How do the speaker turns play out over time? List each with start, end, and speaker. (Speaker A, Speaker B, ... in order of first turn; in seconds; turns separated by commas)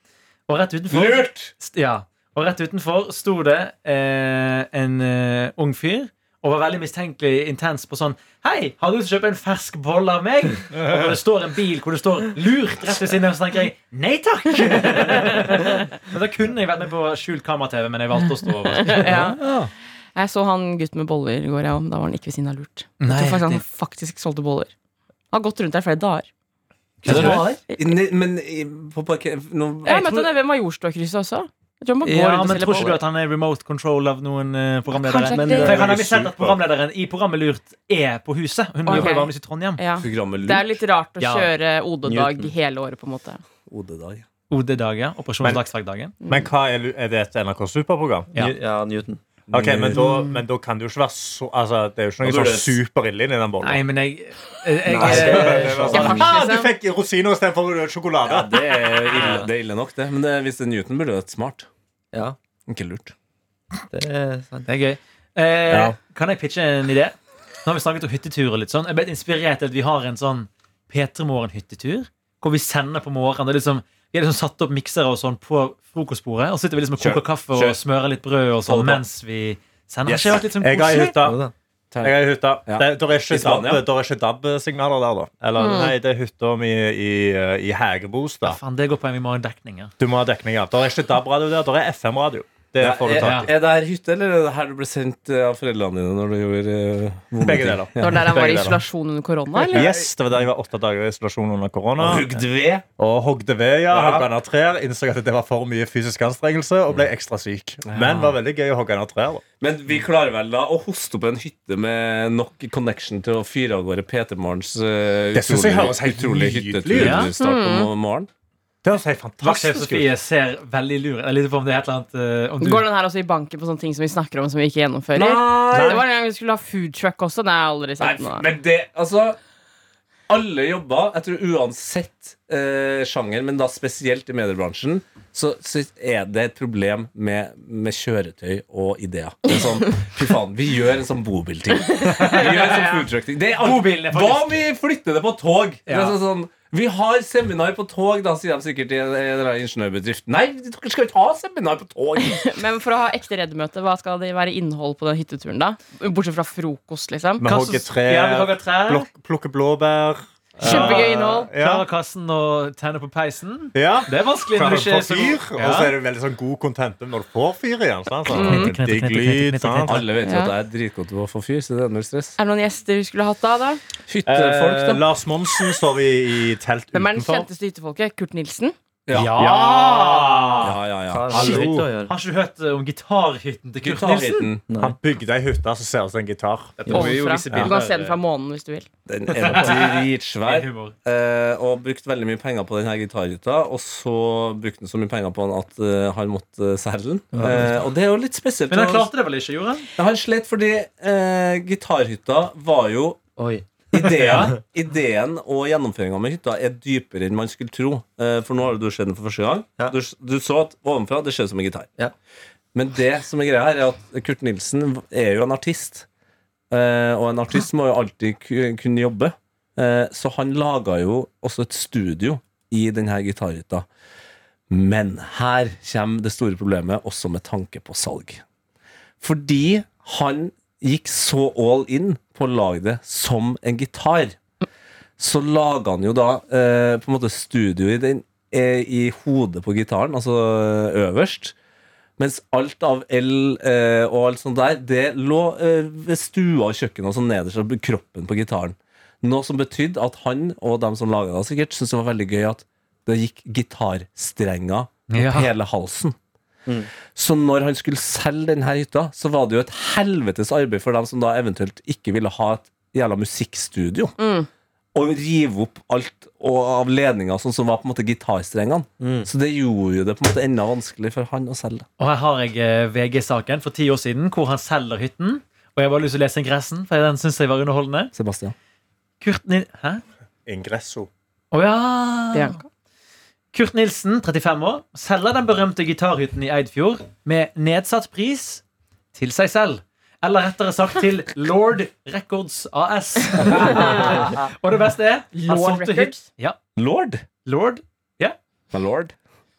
Speaker A: 0.5-19.1, Speaker B: 0.9-1.5, Speaker C: 10.8-11.2, Speaker D: 18.7-19.4, Speaker B: 19.0-19.7, Speaker D: 20.2-24.7, Speaker A: 23.0-23.6, Speaker D: 25.3-26.3, Speaker D: 27.0-27.9, Speaker B: 27.0-30.3, Speaker A: 27.1-27.5, Speaker D: 29.9-33.0, Speaker A: 32.0-39.8, Speaker D: 34.9-35.8, Speaker E: 35.2-36.0, Speaker C: 35.6-36.6, Speaker D: 38.9-43.4, Speaker B: 38.9-39.2, Speaker B: 40.0-40.8, Speaker A: 41.2-41.5, Speaker E: 42.1-42.5, Speaker B: 43.7-44.3, Speaker A: 44.5-46.1, Speaker C: 46.3-48.3, Speaker E: 48.4-50.1, Speaker C: 49.5-53.8, Speaker B: 52.2-52.8, Speaker A: 53.6-56.1, Speaker B: 54.9-56.4, Speaker E: 55.0-55.7, Speaker C: 55.0-59.4, Speaker D: 55.9-56.7, Speaker B: 58.2-61.7, Speaker B: 62.7-63.1, Speaker E: 63.9-64.7, Speaker A: 64.7-81.2, Speaker C: 65.7-65.9, Speaker C: 77.0-77.8, Speaker B: 78.7-79.0, Speaker C: 80.1-81.4, Speaker E: 81.2-81.5, Speaker B: 81.9-83.8, Speaker C: 82.0-88.6, Speaker D: 85.6-85.9, Speaker A: 88.4-89.9, Speaker C: 90.0-93.5, Speaker B: 92.8-98.4, Speaker A: 93.2-93.5, Speaker C: 97.4-98.8, Speaker D: 98.0-100.0, Speaker C: 99.6-102.3, Speaker B: 102.0-102.8, Speaker C: 103.0-109.4, Speaker B: 103.9-104.3, Speaker B: 107.9-108.3, Speaker B: 109.6-118.3, Speaker C: 115.3-117.3, Speaker A: 116.9-117.3, Speaker D: 117.4-117.9, Speaker C: 118.8-120.1, Speaker A: 119.4-122.9, Speaker D: 122.6-128.5, Speaker B: 125.1-126.1, Speaker C: 125.7-126.0, Speaker B: 128.0-129.4, Speaker B: 130.3-152.5, Speaker A: 142.0-144.6, Speaker A: 145.9-146.2, Speaker D: 152.2-157.4, Speaker C: 157.4-161.8, Speaker A: 157.4-159.1, Speaker D: 160.6-161.5, Speaker A: 160.7-166.0, Speaker C: 163.8-170.0, Speaker A: 168.3-170.0, Speaker D: 168.3-168.7, Speaker B: 169.8-172.4, Speaker D: 170.2-170.5, Speaker D: 172.4-173.8, Speaker B: 174.1-175.1, Speaker C: 174.3-177.5, Speaker D: 176.9-178.8, Speaker B: 179.1-181.6, Speaker A: 179.1-180.5, Speaker C: 179.3-180.8, Speaker E: 181.1-182.2, Speaker C: 181.3-181.9, Speaker A: 181.5-184.5, Speaker B: 183.8-184.6, Speaker E: 184.7-185.0, Speaker C: 184.8-187.7, Speaker A: 186.8-188.2, Speaker E: 186.9-187.4, Speaker D: 186.9-188.9, Speaker B: 189.1-199.1, Speaker A: 189.4-190.9, Speaker E: 197.3-197.8, Speaker A: 198.7-199.9, Speaker B: 200.0-203.2, Speaker E: 203.4-204.6, Speaker B: 203.9-211.9, Speaker B: 212.7-216.1, Speaker B: 216.7-223.9, Speaker B: 224.7-228.4, Speaker B: 229.2-234.4, Speaker B: 235.2-241.6, Speaker B: 242.2-256.2, Speaker A: 255.1-255.5, Speaker B: 257.1-264.1, Speaker D: 264.2-264.5, Speaker B: 264.9-271.9, Speaker E: 269.0-269.3, Speaker A: 272.0-278.1, Speaker B: 278.1-278.6, Speaker A: 279.2-280.0, Speaker C: 280.5-281.1, Speaker A: 281.5-282.6, Speaker D: 282.3-282.7, Speaker A: 283.5-288.6, Speaker A: 289.1-296.6, Speaker D: 295.4-296.2, Speaker B: 296.8-297.2, Speaker A: 297.4-298.4, Speaker B: 298.7-299.1